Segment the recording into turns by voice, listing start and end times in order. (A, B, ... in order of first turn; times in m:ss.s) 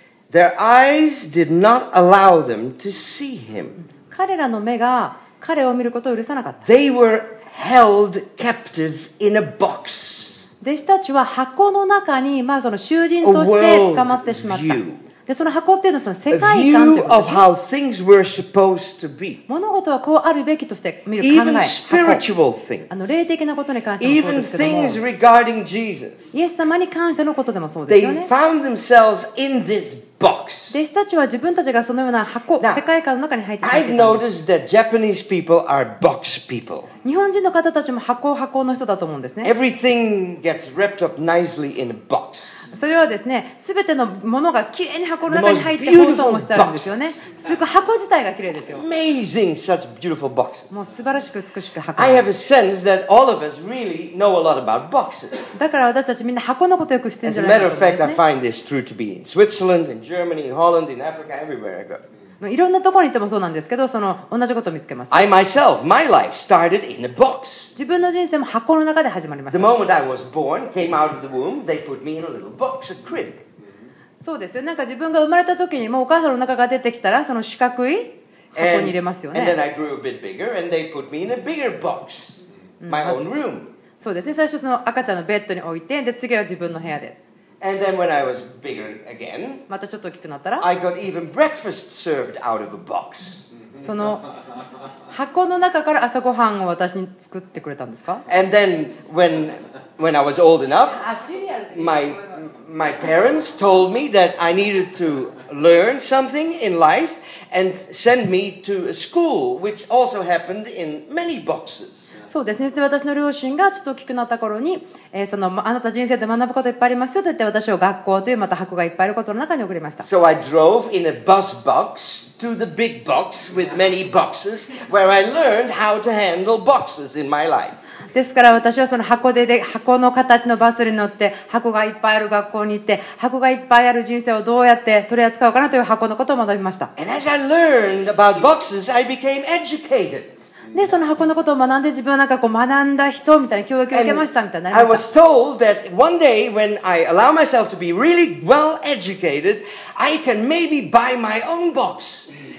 0:00.3-0:03.8 A
0:04.1-0:06.6 B
0:06.6-0:10.4 A
0:10.6-0:17.4 B
0:13.2-0:15.0 A
0:16.3-0:19.4 A
0:19.5-0:22.2 B
0:21.2-0:22.9 A
0:22.9-0:25.0 B
0:24.0-0:26.3 A
0:26.3-0:28.3 B
0:27.9-0:30.8 A
0:30.7-0:34.3 B
0:33.6-0:36.9 A
0:37.0-0:39.5 B
0:39.4-0:42.7 A
0:42.7-0:48.8 B
0:45.2-0:47.1 A
0:48.6-0:50.7 A
0:50.7-0:52.3 B
0:52.0-0:55.5 A
0:55.5-0:58.2 B
0:57.2-1:02.0 A
1:02.4-1:05.2 B
1:05.1-1:07.7 A
1:07.8-1:09.7 B
1:09.5-1:13.4 A
1:14.2-1:19.6 B
1:18.5-1:23.7 A
1:22.8-1:23.2 B
1:24.0-1:27.2 B
1:27.6-1:29.6 A
1:29.7-1:30.6 B
1:30.6-1:33.5 A
1:33.8-1:34.3 B
1:35.1-1:38.2 B
1:38.3-1:41.1 A
1:41.0-1:42.0 B
1:41.7-1:52.1 A
1:52.3-2:00.1 B
2:00.0-2:07.8 A
2:08.1-2:16.9 B
2:17.0-2:20.5 A
2:20.7-2:25.0 B
2:23.9-2:32.3 A